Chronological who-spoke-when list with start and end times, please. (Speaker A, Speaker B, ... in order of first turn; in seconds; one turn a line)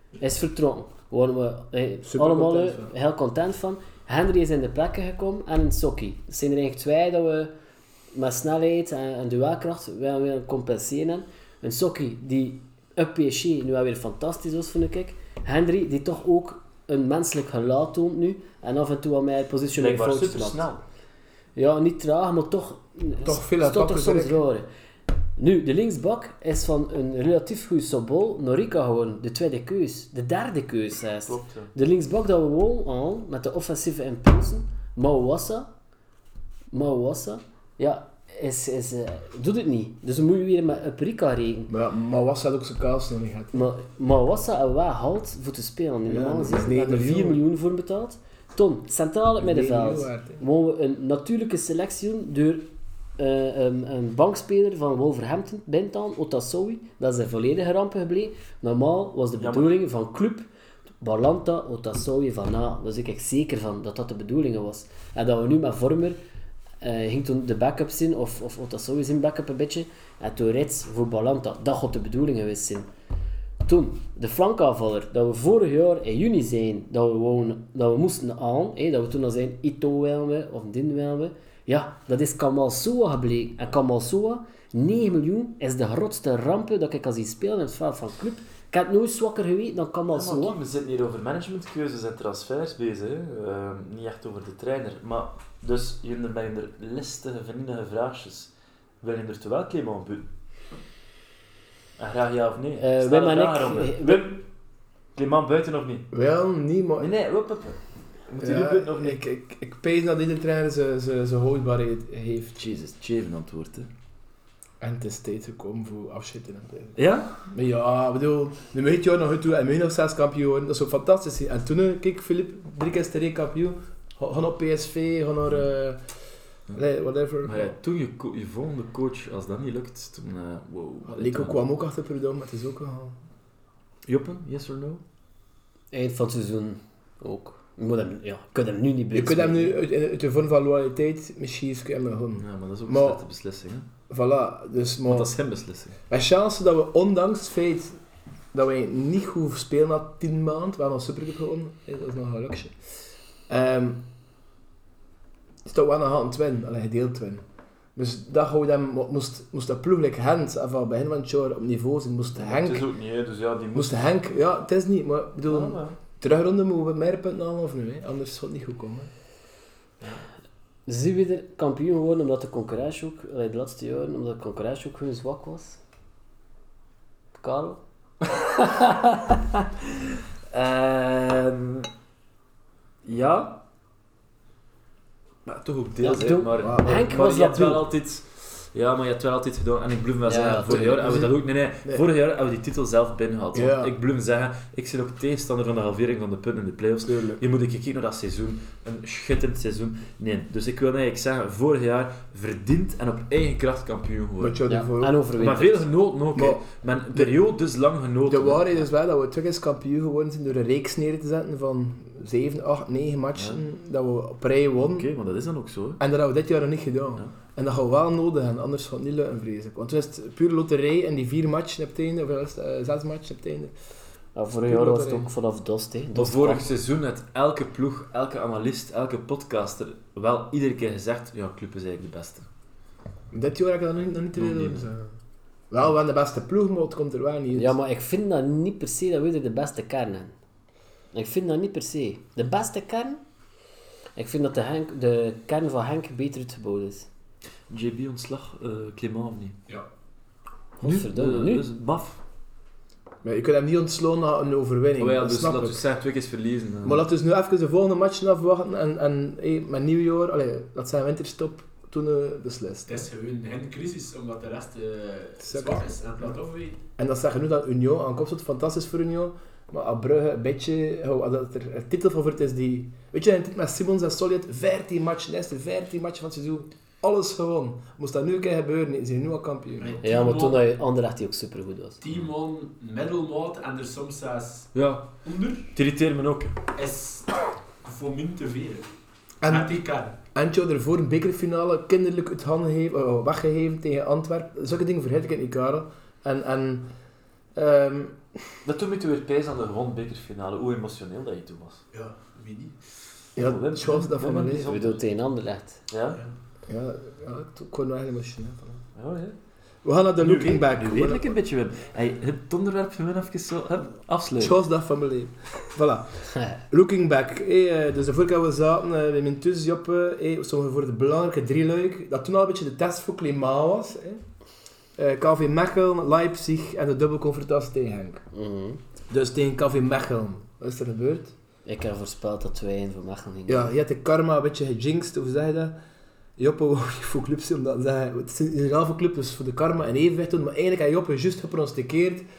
Speaker A: 0.2-7.5
Speaker B: 2.0-2.9
Speaker A: 8.1-20.6
Speaker C: 19.8-20.8
Speaker A: 21.6-24.6
Speaker B: 23.2-24.4
Speaker A: 25.4-35.7
Speaker C: 31.2-31.7
Speaker A: 36.7-41.7
Speaker B: 41.7-43.6
Speaker A: 43.5-60.5
Speaker B: 46.1-47.4
Speaker B: 49.4-50.4
Speaker C: 59.4-59.8
Speaker A: 61.0-66.2
Speaker A: 66.8-72.9
Speaker A: 73.6-90.6
Speaker C: 90.1-98.5
Speaker C: 99.0-100.3
Speaker C: 102.0-104.4
Speaker A: 102.8-104.3
Speaker C: 105.1-106.1
Speaker B: 106.1-107.1
Speaker C: 107.0-109.2
Speaker B: 108.4-112.6
Speaker C: 112.5-113.9
Speaker B: 114.8-117.0
Speaker C: 117.0-117.4
Speaker B: 117.5-126.0
Speaker B: 126.7-127.7
Speaker C: 127.4-131.6
Speaker B: 131.1-133.2
Speaker C: 134.1-135.0
Speaker A: 135.9-139.8
Speaker B: 139.1-143.2
Speaker C: 142.4-143.9
Speaker B: 144.1-145.3
Speaker C: 145.1-146.0
Speaker B: 146.1-148.0
Speaker B: 148.5-152.8
Speaker B: 153.5-154.0
Speaker B: 155.6-157.4
Speaker B: 157.9-162.9
Speaker C: 162.4-164.2
Speaker B: 163.7-169.1
Speaker C: 165.5-166.0
Speaker A: 170.9-175.8
Speaker A: 177.4-177.8
Speaker A: 178.4-179.4
Speaker C: 180.5-181.9
Speaker C: 183.0-183.6
Speaker C: 185.4-204.6
Speaker A: 186.0-187.8
Speaker B: 186.6-187.1
Speaker A: 190.2-191.1
Speaker B: 190.7-192.0
Speaker B: 193.5-193.9
Speaker B: 197.0-197.4
Speaker B: 204.4-205.2
Speaker A: 204.7-205.9
Speaker C: 205.4-208.8
Speaker B: 206.3-207.3
Speaker B: 208.3-215.1
Speaker C: 213.3-213.6
Speaker C: 214.8-216.0
Speaker B: 216.0-223.7
Speaker A: 224.3-226.7
Speaker B: 224.7-225.3
Speaker C: 226.1-232.4
Speaker B: 233.3-235.1
Speaker C: 234.3-234.9
Speaker B: 235.7-237.7
Speaker A: 237.5-240.3
Speaker A: 241.1-243.2
Speaker A: 244.2-247.1
Speaker C: 247.7-249.6
Speaker A: 250.8-251.7
Speaker C: 250.8-252.2
Speaker B: 253.2-255.8
Speaker C: 255.0-257.0
Speaker B: 256.8-263.1
Speaker D: 262.9-266.8
Speaker B: 265.4-265.9
Speaker B: 267.0-280.0
Speaker D: 279.8-280.6
Speaker A: 280.0-282.0
Speaker D: 282.0-284.7
Speaker C: 284.7-285.1
Speaker D: 285.2-285.7
Speaker C: 285.7-286.6
Speaker D: 286.7-288.9
Speaker B: 289.4-289.8
Speaker D: 289.4-290.1
Speaker B: 290.3-296.9
Speaker B: 297.5-298.6
Speaker C: 298.6-301.8
Speaker D: 301.9-302.8
Speaker B: 303.4-304.7
Speaker C: 303.4-305.0
Speaker A: 304.7-305.8
Speaker C: 305.9-306.2
Speaker B: 306.7-308.8
Speaker C: 308.9-309.4
Speaker B: 309.8-311.3
Speaker C: 310.2-314.6
Speaker B: 314.4-324.2
Speaker B: 324.9-328.2
Speaker A: 328.3-328.8
Speaker B: 329.1-331.3
Speaker A: 331.6-333.7
Speaker B: 333.5-335.8
Speaker B: 336.4-342.2